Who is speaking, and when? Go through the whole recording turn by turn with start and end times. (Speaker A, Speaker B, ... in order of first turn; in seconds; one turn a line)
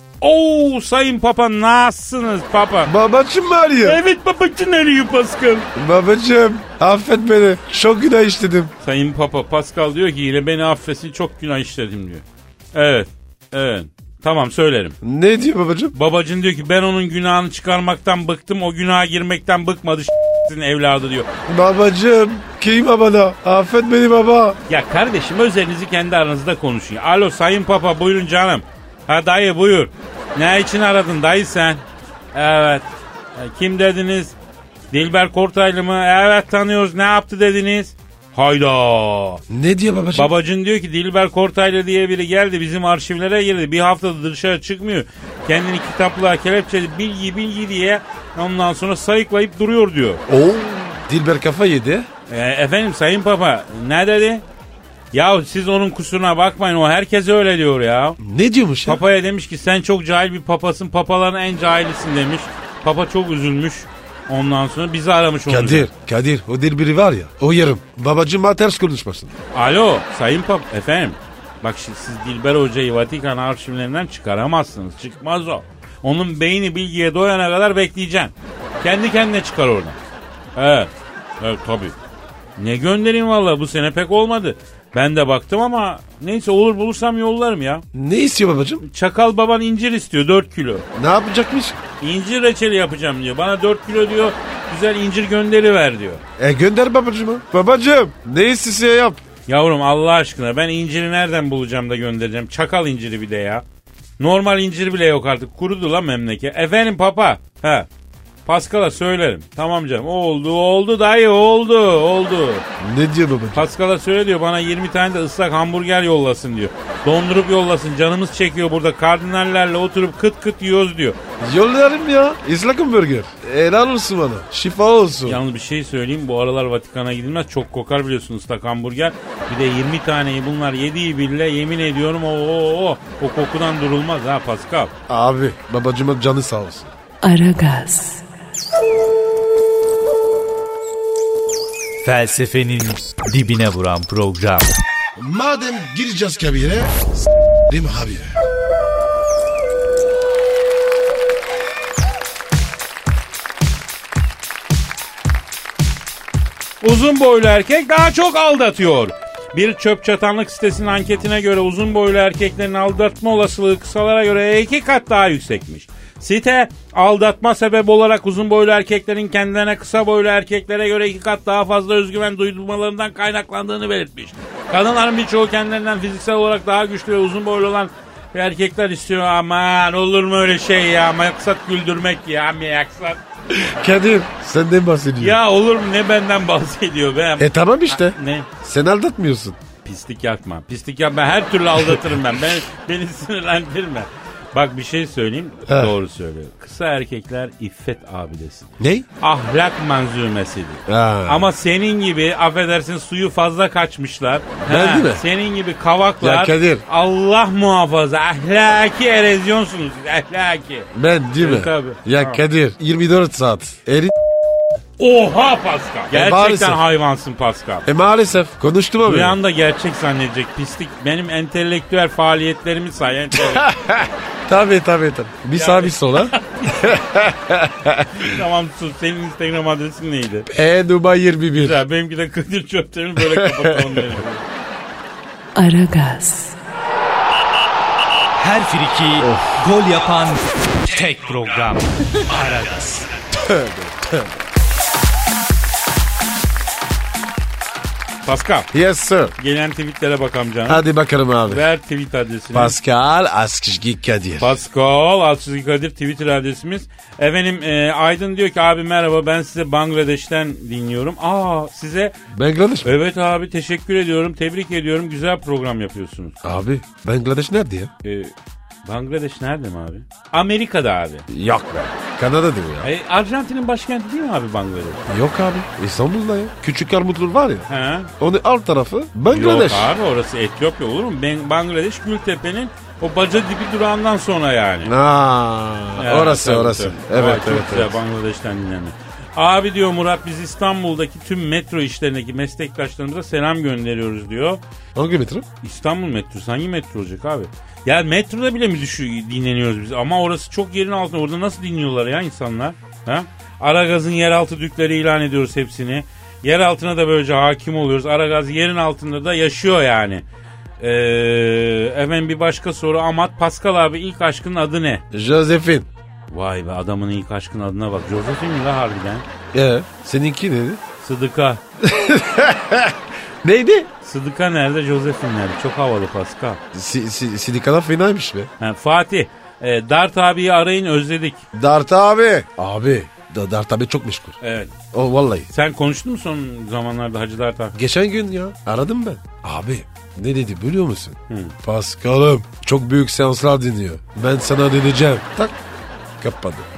Speaker A: 0.2-2.9
Speaker B: 2.9-4.0
Speaker A: 3.8-5.7
Speaker B: 5.8-8.7
Speaker A: 8.8-15.0
Speaker B: 15.0-15.9
Speaker A: 15.9-21.3
Speaker B: 21.5-24.6
Speaker A: 24.7-34.4
Speaker A: 34.9-39.4
Speaker B: 39.5-40.3
Speaker A: 40.1-50.2
Speaker B: 50.3-52.1
Speaker A: 52.3-54.4
Speaker A: 55.1-58.2
Speaker B: 58.2-59.0
Speaker A: 58.9-65.9
Speaker B: 65.5-69.3
Speaker A: 69.5-80.0
Speaker A: 80.6-82.0
Speaker A: 82.6-87.8
Speaker B: 87.9-88.8
Speaker A: 88.8-90.9
Speaker B: 91.0-91.8
Speaker A: 92.0-96.2
Speaker B: 96.4-99.2
Speaker A: 99.5-103.6
Speaker A: 104.2-107.9
Speaker A: 108.5-112.7
Speaker B: 112.8-113.7
Speaker A: 113.5-121.2
Speaker B: 121.4-125.4
Speaker A: 125.3-134.9
Speaker B: 135.1-136.9
Speaker C: 137.2-138.2
Speaker D: 142.0-144.7
Speaker B: 145.2-146.9
Speaker B: 147.7-148.3
Speaker A: 156.8-183.2
Speaker B: 183.5-185.4
Speaker A: 185.2-188.5
Speaker B: 187.4-189.6
Speaker A: 189.8-212.4
Speaker B: 195.7-195.9
Speaker B: 198.8-199.1
Speaker B: 200.9-201.5
Speaker B: 204.6-205.2
Speaker B: 206.2-206.8
Speaker B: 210.9-214.1
Speaker A: 215.0-217.9
Speaker B: 216.1-216.8
Speaker B: 217.9-219.4
Speaker A: 219.0-223.7
Speaker B: 223.5-228.3
Speaker A: 225.6-226.9
Speaker A: 228.2-230.5
Speaker B: 230.5-231.8
Speaker A: 231.6-234.4
Speaker B: 233.3-233.7
Speaker C: 235.6-236.6
Speaker D: 238.4-243.1
Speaker B: 239.2-239.6
Speaker B: 243.3-244.4
Speaker A: 248.2-248.7
Speaker B: 248.7-249.3
Speaker A: 249.4-250.8
Speaker B: 250.7-251.7
Speaker A: 251.4-252.8
Speaker B: 252.5-254.6
Speaker A: 254.4-262.2
Speaker B: 262.3-262.9
Speaker A: 262.8-266.4
Speaker B: 266.4-267.9
Speaker A: 268.0-268.3
Speaker A: 268.9-271.3
Speaker B: 271.3-272.9
Speaker A: 272.8-275.1
Speaker B: 275.1-277.7
Speaker A: 277.7-278.1
Speaker B: 278.2-279.9
Speaker A: 279.3-284.9
Speaker B: 284.9-288.0
Speaker A: 286.0-294.6
Speaker B: 294.9-295.5
Speaker A: 295.6-310.2
Speaker A: 310.8-315.0
Speaker B: 315.1-315.9
Speaker A: 316.3-319.2
Speaker B: 319.5-320.8
Speaker A: 321.0-321.6
Speaker B: 321.8-323.9
Speaker A: 324.0-326.6
Speaker B: 326.7-328.5
Speaker A: 328.6-331.4
Speaker B: 331.5-334.4
Speaker A: 334.4-334.8
Speaker B: 334.9-335.5
Speaker A: 335.5-337.8
Speaker B: 337.8-345.6
Speaker A: 341.3-341.6
Speaker B: 346.2-346.7